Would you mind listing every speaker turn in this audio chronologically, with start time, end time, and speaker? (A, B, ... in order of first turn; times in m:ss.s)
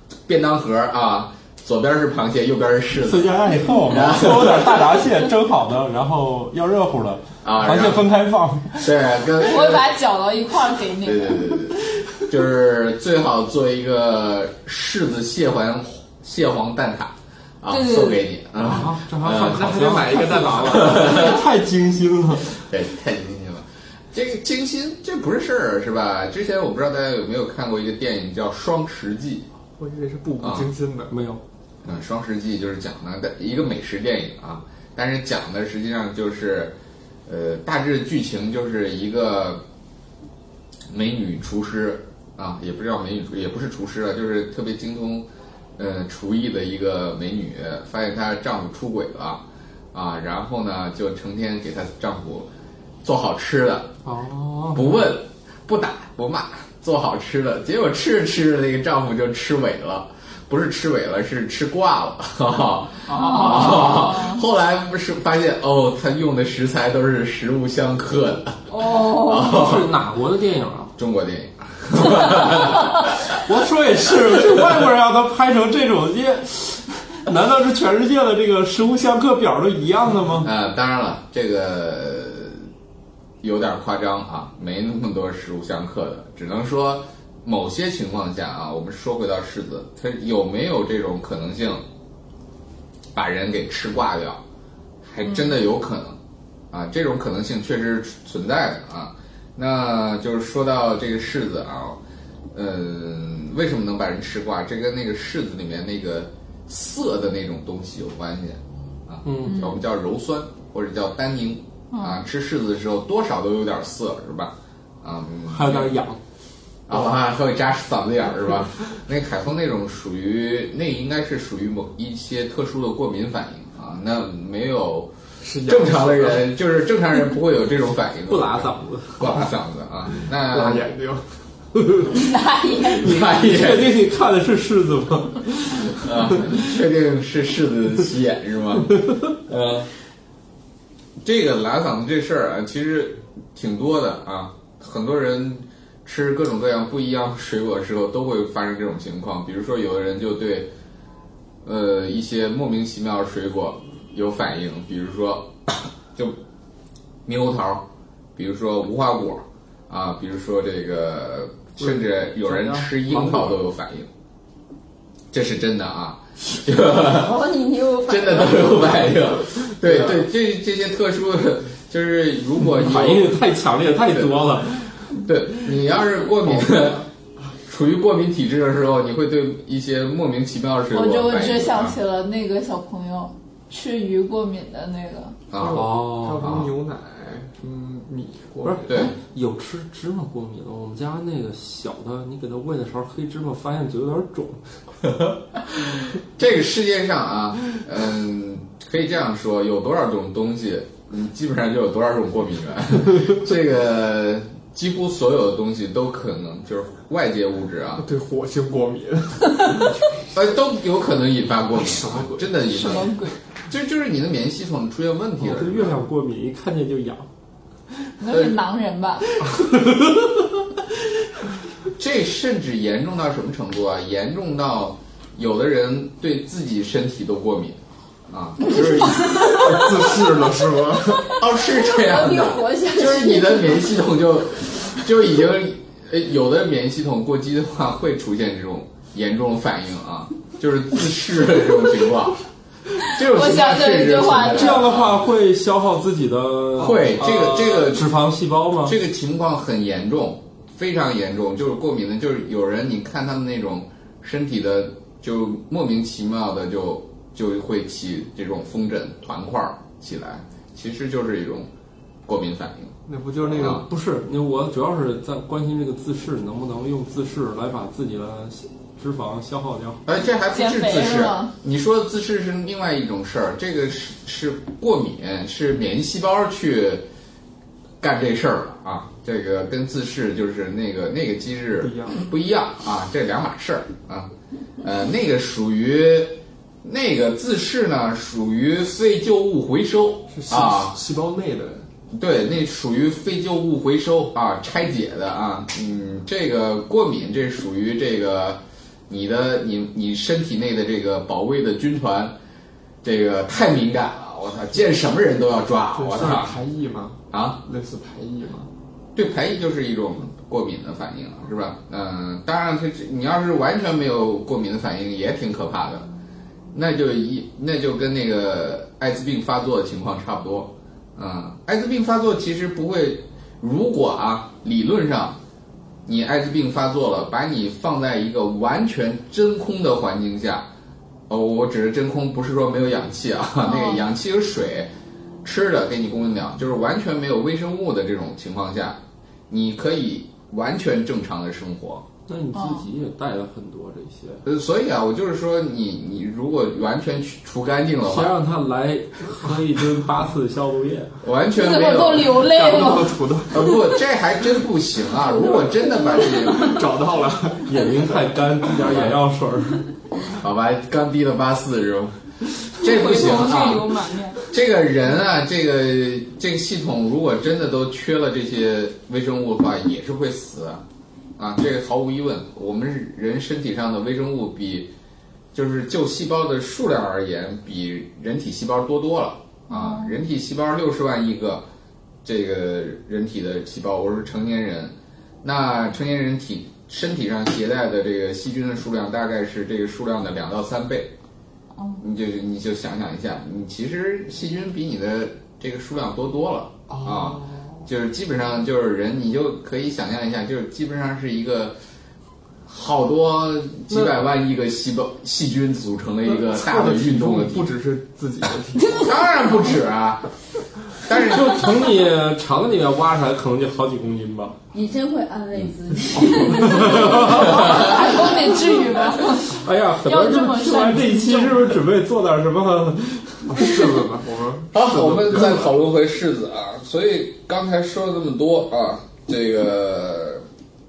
0:00.3-0:05.0 A
0:03.0-0:08.9 B
0:07.4-0:08.1 A
0:08.8-0:09.9 A
0:09.4-0:11.6 C
0:11.0-0:21.4 A
0:17.7-0:18.2 C
0:18.6-0:22.5 B
0:19.3-0:21.3 D
0:22.5-0:29.5 A
0:29.8-0:31.1 D
0:30.4-0:30.7 A
0:31.1-0:31.4 B
0:31.8-0:36.7 A
0:37.3-0:39.6 A
0:40.9-0:52.5 A
0:53.0-0:53.9 A
0:54.0-0:55.0 B
0:54.7-1:10.0 A
1:03.1-1:04.4 C
1:08.7-1:09.7 C
1:09.3-1:11.0 B
1:11.0-1:13.4 A
1:13.3-1:20.5 B
1:20.4-1:22.7 A
1:23.4-1:31.8 A
1:33.2-1:34.4 A
1:35.0-1:36.2 A
1:36.7-1:42.0 A
1:42.5-1:55.9 A
1:49.2-1:49.7 B
1:49.4-1:49.8 C
1:51.9-1:52.2 C
1:55.5-1:56.2 B
1:56.9-2:05.1 A
2:05.4-2:06.5 D
2:05.6-2:10.9 A
2:08.3-2:09.4 B
2:10.3-2:11.3 D
2:12.1-2:13.2 C
2:13.0-2:14.0 A
2:13.0-2:15.9 B
2:16.0-2:19.9 A
2:21.2-2:30.7 A
2:31.6-2:36.4 A
2:37.2-2:44.1 A
2:41.8-2:43.6 B
2:45.3-2:47.4 A
2:47.0-2:49.3 E
2:48.1-2:53.4 A
2:49.9-2:50.2 B
2:52.6-2:54.9 B
2:54.1-2:54.5 A
2:55.1-2:57.1 A
2:56.5-2:56.9 B
2:57.7-3:02.0 A
3:00.9-3:05.4 C
3:05.5-3:06.7 A
3:05.6-3:09.1 D
3:05.7-3:06.6 B
3:08.6-3:14.6 B
3:08.9-3:09.2 A
3:15.0-3:28.0 A
3:28.0-3:30.4 D
3:30.3-3:36.0 A
3:31.7-3:32.5 D
3:32.7-3:33.4 C
3:35.4-3:37.3 B
3:38.2-3:39.6 C
3:38.3-3:38.6 A
3:41.9-3:49.8 A
3:49.4-3:51.4 D
3:51.4-4:02.4 A
3:52.1-3:53.7 E
3:52.4-3:53.2 C
4:03.0-4:05.2 A
4:03.2-4:04.8 C
4:04.5-4:09.0 B
4:06.8-4:08.2 A
4:08.8-4:21.7 A
4:22.3-4:23.0 A
4:23.1-4:23.9 D
4:23.5-4:30.0 B
4:23.6-4:23.9 A
4:30.0-4:37.1 A
4:30.5-4:31.5 C
4:38.0-4:44.3 A
4:41.8-4:42.2 D
4:44.8-4:51.0 A
4:50.3-4:51.9 D
4:52.1-5:02.4 A
5:03.0-5:06.6 A
5:06.0-5:08.7 D
5:07.3-5:07.6 A
5:09.2-5:16.1 A
5:16.7-5:25.4 A
5:26.1-5:30.7 A
5:31.3-5:34.9 A
5:33.6-5:34.0 C
5:35.4-5:42.1 A
5:42.3-5:44.4 B
5:42.5-5:42.8 C
5:44.4-5:48.4 A
5:48.0-5:51.2 B
5:51.2-5:52.4 A
5:51.6-5:53.8 C
5:52.4-5:53.7 D
5:53.5-5:56.8 A
5:56.2-5:58.0 D
5:57.7-5:59.9 B
6:00.4-6:02.2 A
6:02.7-6:03.9 A
6:02.8-6:04.4 C
6:04.5-6:10.8 A
6:11.4-6:14.9 A
6:15.5-6:21.7 A
6:19.7-6:20.2 C
6:22.2-6:31.1 A
6:31.8-6:32.0 C
6:32.0-6:41.8 A
6:36.9-6:37.9 D
6:42.7-6:47.7 A
6:46.3-6:49.1 D
6:49.0-6:50.3 A
6:51.0-6:51.8 A
6:51.2-6:54.6 B
6:54.7-6:58.8 E
6:56.5-7:01.7 C
6:56.7-6:57.5 B
6:57.3-6:58.1 A
6:59.5-7:03.7 B
7:03.5-7:05.7 D
7:04.7-7:10.4 A